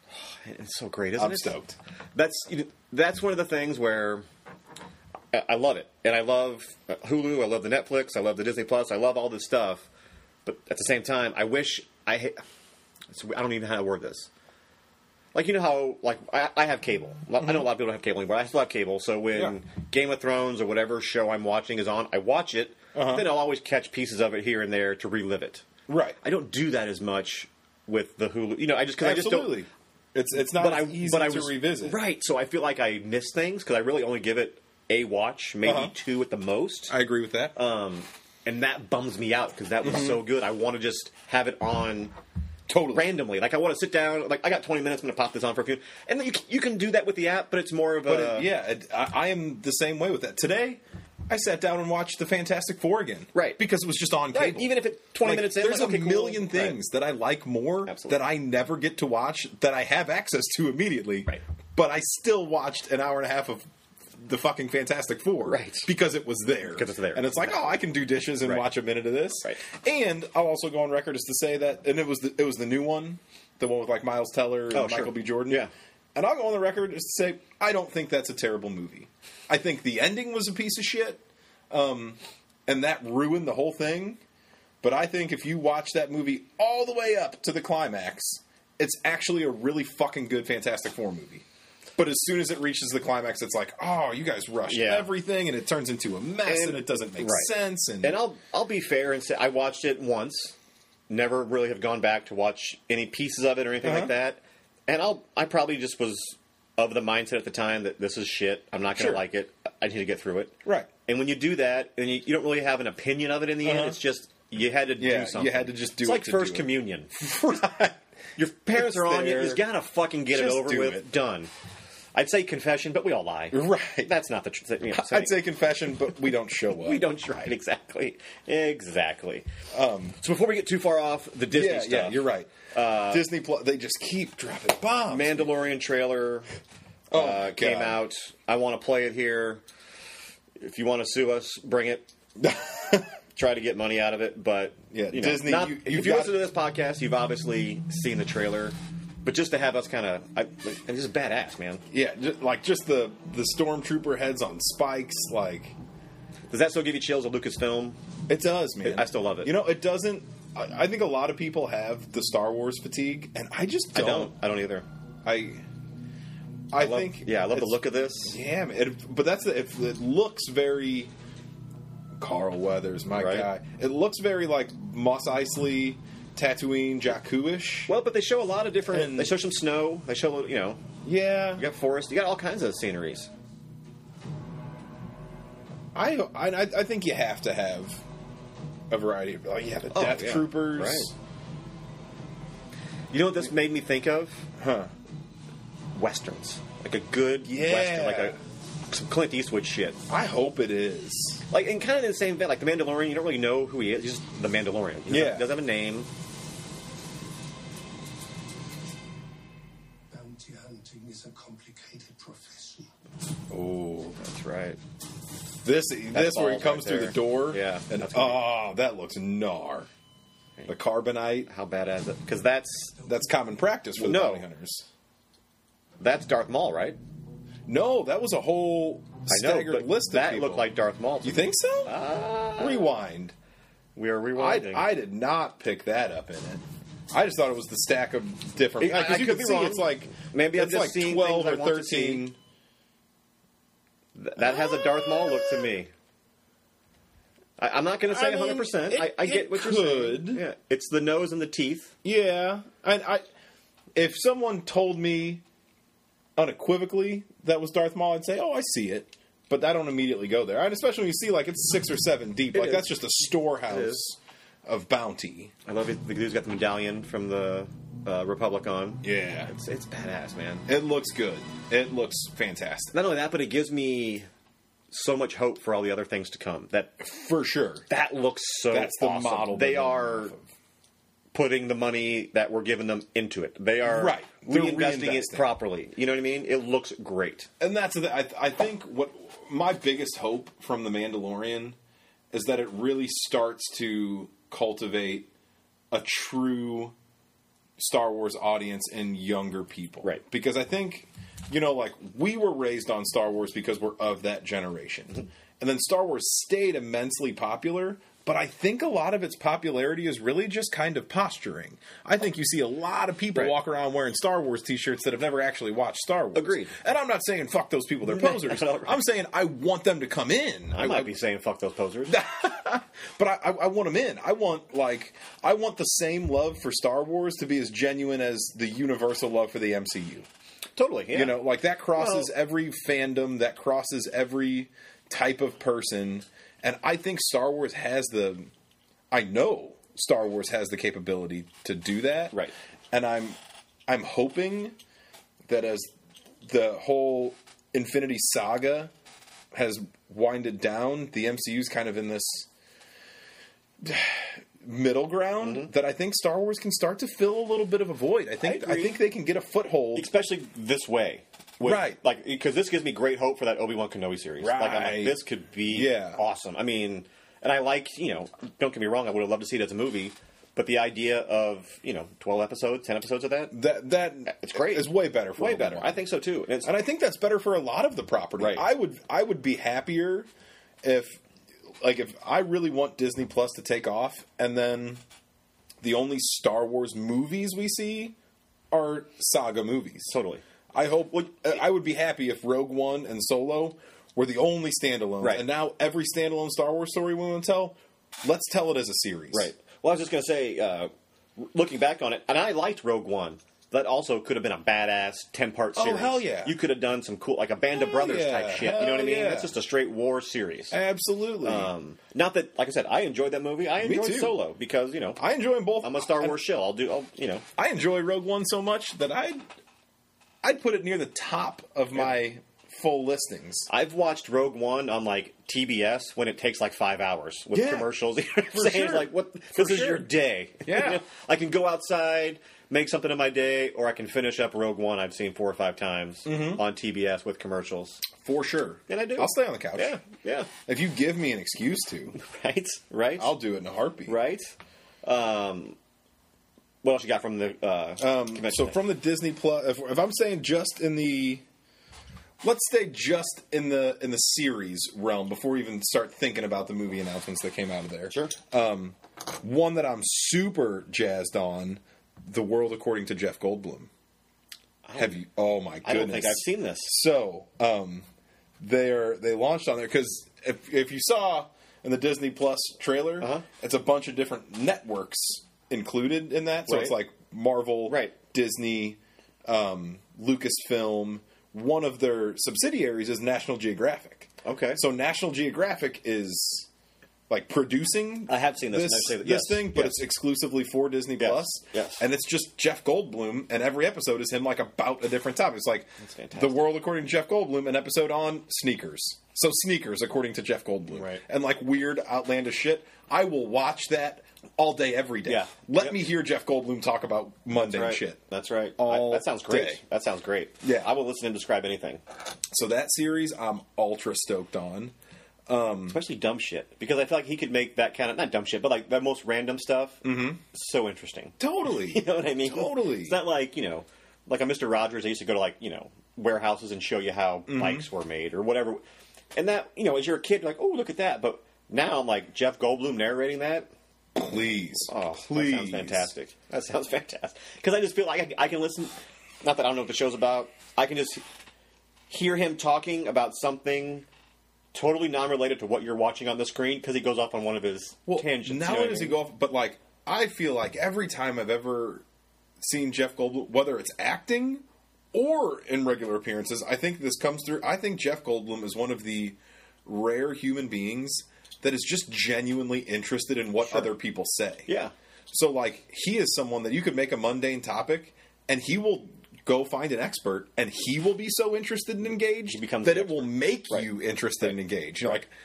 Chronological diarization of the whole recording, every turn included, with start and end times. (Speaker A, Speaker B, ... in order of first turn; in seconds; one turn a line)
Speaker A: 0.1-1.6
Speaker B: 1.2-1.8
Speaker A: 2.1-4.2
Speaker A: 5.3-9.9
Speaker A: 10.4-12.4
Speaker A: 13.1-14.3
Speaker A: 15.3-25.7
Speaker B: 22.9-23.3
Speaker B: 25.9-26.2
Speaker A: 26.2-29.7
Speaker B: 29.0-32.0
Speaker A: 30.4-36.9
Speaker B: 35.6-35.9
Speaker B: 36.9-37.5
Speaker A: 37.5-42.1
Speaker B: 39.8-40.2
Speaker B: 42.7-43.1
Speaker A: 42.9-48.5
Speaker B: 48.0-63.6
Speaker A: 53.3-53.6
Speaker A: 54.3-56.8
Speaker A: 57.9-58.2
Speaker B: 64.2-84.2
Speaker A: 65.5-65.9
Speaker A: 66.7-67.8
Speaker A: 74.7-75.7
Speaker B: 84.8-91.5
Speaker B: 92.0-98.2
Speaker A: 94.7-95.1
Speaker A: 96.5-97.5
Speaker A: 98.0-100.5
Speaker A: 101.1-117.2
Speaker B: 103.8-104.1
Speaker B: 109.0-109.2
Speaker B: 113.6-114.0
Speaker B: 115.0-118.0
Speaker A: 118.4-121.5
Speaker B: 118.7-119.7
Speaker B: 120.3-121.1
Speaker A: 122.1-125.4
Speaker B: 123.5-124.1
Speaker B: 124.9-127.1
Speaker A: 126.7-129.5
Speaker B: 129.7-130.2
Speaker A: 130.2-133.2
Speaker B: 131.5-132.5
Speaker B: 133.1-135.5
Speaker A: 135.1-136.5
Speaker B: 137.1-138.0
Speaker A: 137.1-139.6
Speaker A: 140.6-142.1
Speaker B: 142.4-143.1
Speaker A: 143.3-151.8
Speaker B: 144.9-146.4
Speaker B: 151.9-155.8
Speaker A: 156.5-158.0
Speaker B: 158.3-164.3
Speaker A: 158.8-159.5
Speaker A: 163.9-164.9
Speaker B: 165.2-165.6
Speaker B: 166.7-171.1
Speaker A: 166.8-168.4
Speaker B: 172.2-177.9
Speaker A: 173.2-173.5
Speaker A: 177.9-180.8
Speaker B: 178.9-179.4
Speaker B: 181.0-181.7
Speaker A: 181.6-183.3
Speaker B: 185.9-188.0
Speaker B: 188.9-191.1
Speaker A: 189.9-191.1
Speaker A: 193.1-194.5
Speaker B: 194.6-194.9
Speaker A: 195.9-198.4
Speaker B: 197.4-198.4
Speaker A: 198.9-200.0
Speaker B: 200.1-201.4
Speaker A: 201.5-206.1
Speaker B: 205.1-205.5
Speaker C: 210.1-212.9
Speaker B: 213.5-214.2
Speaker A: 214.2-214.8
Speaker B: 215.6-219.9
Speaker A: 216.1-218.5
Speaker B: 220.7-221.5
Speaker A: 221.5-223.0
Speaker B: 223.1-224.8
Speaker A: 224.0-224.5
Speaker A: 226.0-227.0
Speaker B: 227.7-230.7
Speaker A: 229.3-232.9
Speaker B: 231.2-232.0
Speaker B: 232.6-233.3
Speaker A: 234.0-234.9
Speaker B: 234.3-242.4
Speaker A: 238.8-242.3
Speaker A: 244.2-245.9
Speaker B: 244.4-245.7
Speaker A: 247.6-251.9
Speaker B: 248.1-250.4
Speaker B: 252.0-253.2
Speaker B: 253.9-255.4
Speaker B: 256.4-265.5
Speaker A: 262.5-262.9
Speaker A: 263.7-264.0
Speaker A: 265.7-270.7
Speaker B: 269.0-269.5
Speaker B: 270.7-272.9
Speaker A: 272.9-274.3
Speaker A: 274.9-276.9
Speaker B: 277.0-277.9
Speaker A: 277.9-280.3
Speaker B: 278.7-280.4
Speaker A: 281.3-287.5
Speaker B: 283.8-285.5
Speaker B: 287.6-291.8
Speaker B: 292.3-295.3
Speaker B: 295.9-296.9
Speaker B: 297.8-321.1
Speaker A: 316.4-316.7
Speaker A: 318.1-319.0
Speaker A: 320.7-322.2
Speaker B: 322.1-330.3
Speaker A: 330.8-332.3
Speaker B: 331.1-338.5
Speaker B: 339.1-342.4
Speaker B: 342.9-344.8
Speaker B: 345.5-345.9
Speaker B: 346.4-348.9
Speaker B: 349.5-352.5
Speaker B: 353.8-360.1
Speaker A: 355.4-355.7
Speaker A: 358.4-359.0
Speaker A: 359.9-373.6
Speaker B: 361.6-362.0
Speaker B: 364.4-366.2
Speaker B: 373.5-375.9
Speaker A: 374.3-376.7
Speaker B: 376.6-380.3
Speaker A: 378.4-378.7
Speaker B: 380.8-381.2
Speaker B: 381.8-385.0
Speaker B: 385.8-388.1
Speaker B: 388.7-390.1
Speaker A: 390.1-390.4
Speaker B: 390.7-399.5
Speaker A: 399.3-410.8
Speaker B: 405.8-406.6
Speaker B: 407.7-409.5
Speaker B: 410.7-411.7
Speaker A: 411.4-415.2
Speaker B: 413.8-414.4
Speaker B: 415.2-416.4
Speaker A: 415.8-417.4
Speaker B: 417.6-419.4
Speaker B: 420.4-423.7
Speaker A: 423.7-438.0
Speaker B: 427.5-427.9
Speaker B: 428.5-430.1
Speaker B: 430.6-431.0
Speaker B: 436.2-436.6
Speaker B: 438.2-440.0
Speaker A: 438.9-440.5
Speaker B: 440.7-442.2
Speaker A: 442.1-443.3
Speaker B: 443.2-444.2
Speaker A: 444.1-444.5
Speaker A: 445.0-445.8
Speaker A: 446.8-448.8
Speaker B: 448.0-451.4
Speaker B: 452.4-463.9
Speaker A: 458.1-458.4
Speaker A: 464.9-465.1
Speaker B: 465.0-468.1
Speaker A: 465.8-467.0
Speaker B: 468.6-486.7
Speaker A: 473.2-473.4
Speaker A: 476.7-477.0
Speaker A: 477.9-478.1
Speaker A: 484.4-484.8
Speaker B: 487.3-508.2
Speaker A: 488.3-490.0
Speaker A: 491.2-492.0
Speaker A: 496.0-496.6
Speaker A: 500.9-501.2
Speaker A: 505.3-506.0
Speaker A: 507.6-512.0
Speaker B: 508.8-509.8
Speaker B: 512.5-514.9
Speaker B: 515.5-516.0
Speaker A: 515.9-528.8
Speaker B: 520.0-520.4
Speaker B: 521.4-523.2
Speaker B: 527.5-527.9
Speaker A: 529.3-533.7
Speaker B: 534.1-536.1
Speaker A: 534.9-541.2
Speaker A: 542.1-544.1
Speaker A: 544.7-549.2
Speaker B: 548.1-552.0
Speaker B: 552.6-564.7
Speaker A: 564.7-564.9
Speaker B: 565.3-575.3
Speaker A: 572.5-573.9